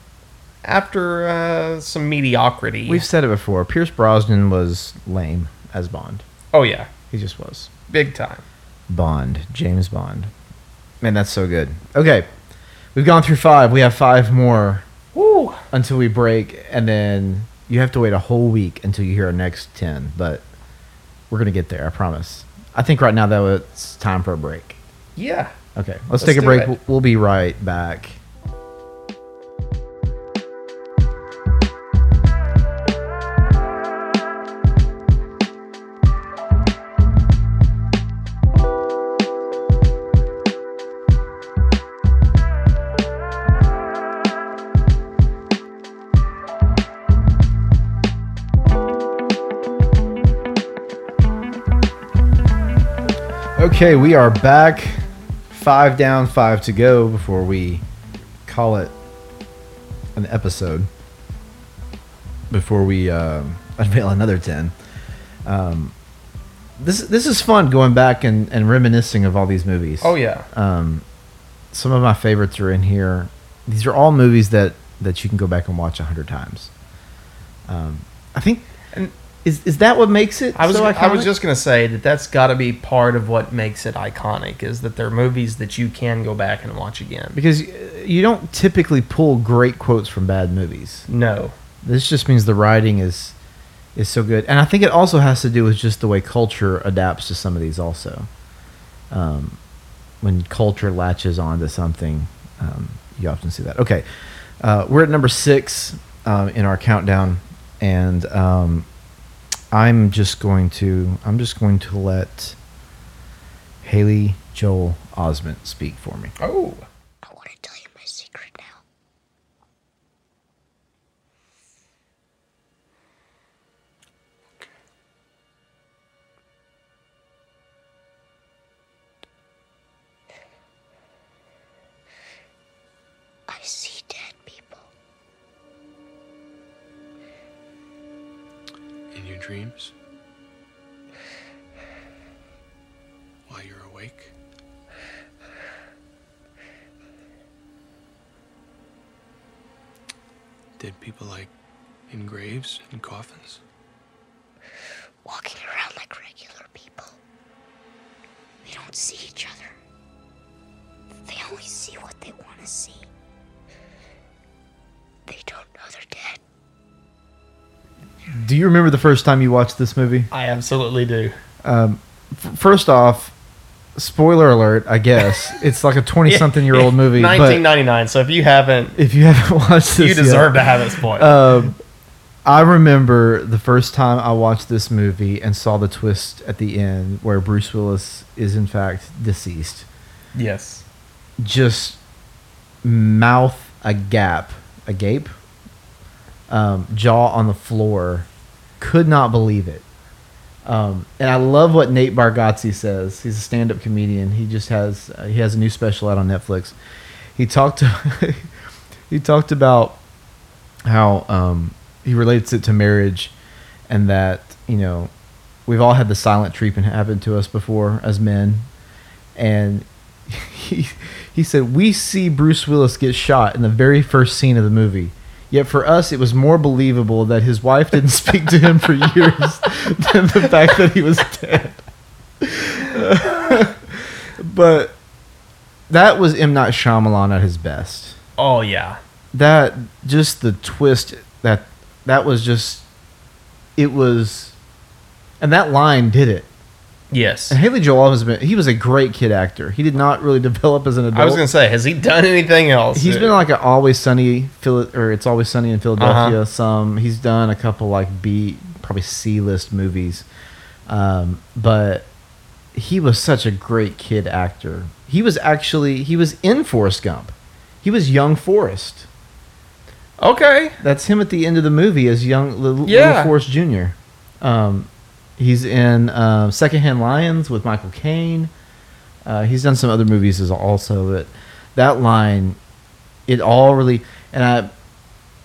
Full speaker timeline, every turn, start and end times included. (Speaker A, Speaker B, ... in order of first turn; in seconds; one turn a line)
Speaker A: 0.6-3.0
Speaker B: 2.9-6.2
Speaker A: 6.5-6.9
Speaker B: 7.1-7.7
Speaker A: 7.9-8.4
Speaker B: 8.9-10.3
Speaker B: 11.0-12.3
Speaker B: 12.9-14.8
Speaker A: 15.1-15.6
Speaker B: 15.7-20.4
Speaker B: 21.3-24.8
Speaker A: 25.1-25.5
Speaker B: 25.7-28.2
Speaker A: 26.2-26.8
Speaker B: 53.5-57.8
Speaker B: 58.5-58.9
Speaker B: 60.1-60.9
Speaker B: 62.5-64.7
Speaker B: 65.4-65.9
Speaker B: 66.8-71.0
Speaker A: 70.0-70.5
Speaker B: 71.7-76.7
Speaker B: 77.7-78.7
Speaker B: 79.4-81.3
Speaker A: 80.5-87.4
Speaker B: 87.3-91.1
Speaker A: 91.1-91.5
Speaker B: 91.8-93.3
Speaker B: 94.0-98.3
Speaker B: 99.1-99.6
Speaker B: 100.2-104.0
Speaker B: 104.6-108.9
Speaker B: 109.7-112.6
Speaker B: 113.8-116.3
Speaker A: 116.4-116.8
Speaker C: 117.2-118.8
Speaker C: 133.5-134.9
Speaker D: 139.1-139.9
Speaker D: 143.5-144.3
Speaker D: 150.8-151.5
Speaker D: 152.1-153.6
Speaker C: 155.2-157.2
Speaker C: 158.6-159.7
Speaker C: 161.2-163.1
Speaker C: 165.3-166.4
Speaker B: 168.3-170.3
Speaker A: 170.3-171.3
Speaker B: 171.6-173.3
Speaker B: 173.9-177.6
Speaker A: 176.2-178.9
Speaker B: 178.9-181.8
Speaker A: 180.0-181.4
Speaker B: 182.4-189.9
Speaker A: 190.3-190.8
Speaker B: 191.4-192.0
Speaker B: 192.8-195.3
Speaker B: 196.5-198.3
Speaker B: 198.8-199.8
Speaker B: 200.6-206.7
Speaker B: 207.3-208.5
Speaker B: 209.1-210.0
Speaker B: 210.8-213.3
Speaker B: 213.9-215.1
Speaker B: 215.7-218.7
Speaker B: 219.3-231.8
Speaker B: 232.4-234.9
Speaker B: 235.9-238.2
Speaker A: 238.4-239.0
Speaker B: 239.3-242.8
Speaker B: 243.8-244.5
Speaker B: 245.4-246.5
Speaker A: 247.1-247.6
Speaker B: 247.5-251.4
Speaker A: 251.1-253.4
Speaker B: 252.9-260.2
Speaker A: 256.0-256.4
Speaker B: 260.9-262.1
Speaker B: 262.7-269.1
Speaker A: 270.2-270.8
Speaker B: 270.8-278.5
Speaker A: 272.9-273.3
Speaker B: 279.2-282.6
Speaker B: 283.3-284.7